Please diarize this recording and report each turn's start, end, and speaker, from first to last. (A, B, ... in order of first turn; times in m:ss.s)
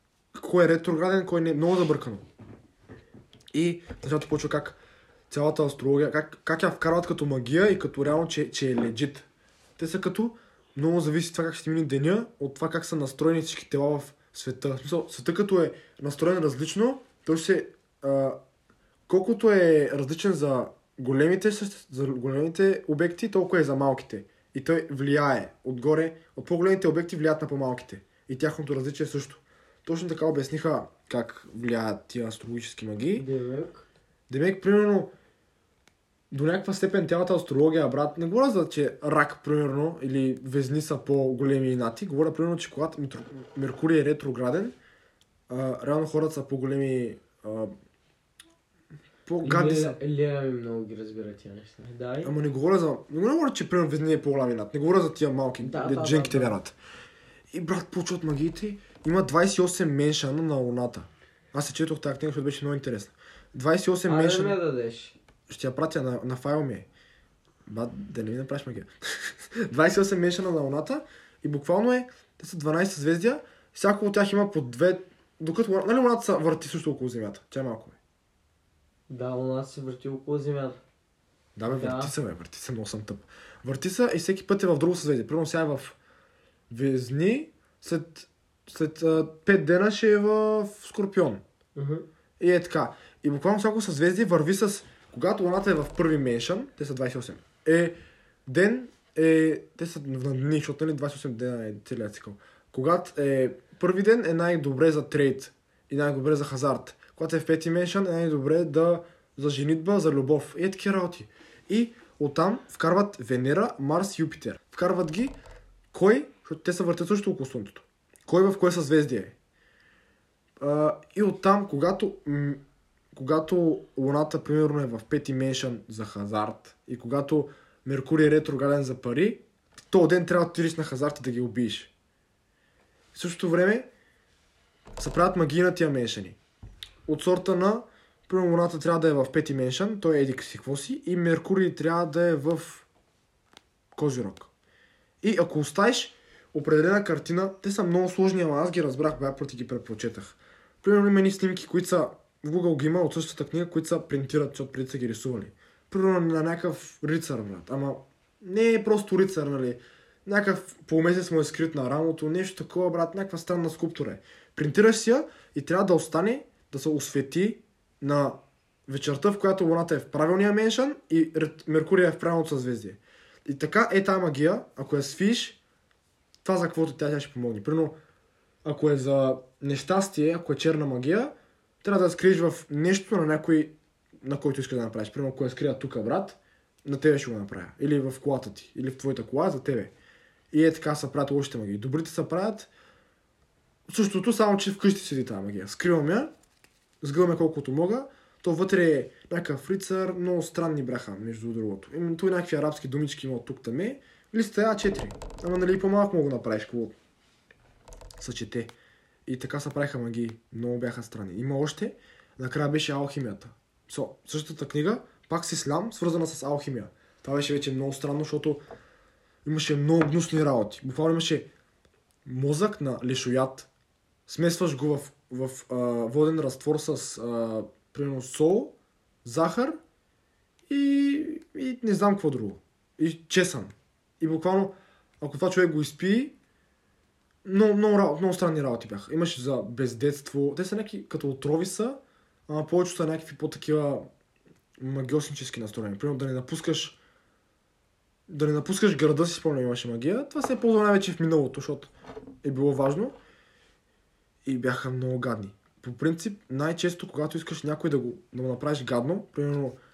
0:00.3-0:02.2 A
0:03.5-0:04.8 A
0:05.3-0:09.3 A
0:09.8-0:18.4 A
0:19.1-0:33.2 A
0:33.1-0:33.9 B
0:34.3-0:35.1 A
0:36.3-0:44.8 A
0:45.5-0:47.7 A
0:49.2-0:50.0 A
0:49.4-0:52.3 B
0:52.2-0:56.8 A
0:55.6-0:56.6 B
0:57.5-1:04.6 A
1:04.0-1:05.2 B
1:05.5-1:06.9 A
1:07.6-1:18.0 A
1:19.1-1:20.8 B
1:21.5-1:26.0 A
1:21.7-1:22.1 B
1:26.7-1:31.4 A
1:31.7-1:32.0 B
1:32.4-1:55.4 A
1:55.9-1:59.3 A
2:00.6-2:11.9 A
2:13.1-2:13.9 A
2:15.0-2:16.4 A
2:17.0-2:22.8 A
2:23.9-2:24.5 A
2:25.2-2:55.6 A
2:56.4-2:58.0 A
2:58.6-3:09.9 A
3:10.5-3:12.7 A
3:13.9-3:16.3 A
3:17.0-3:26.9 A
3:28.2-3:28.7 A
3:29.2-3:38.6 A
3:39.4-3:41.5 A
3:42.2-3:43.7 A
3:44.3-3:49.8 A
3:50.7-3:56.4 A
3:57.4-4:04.1 A
4:04.8-4:07.0 A
4:08.3-4:11.9 A
4:12.4-4:13.2 A
4:14.4-4:19.8 A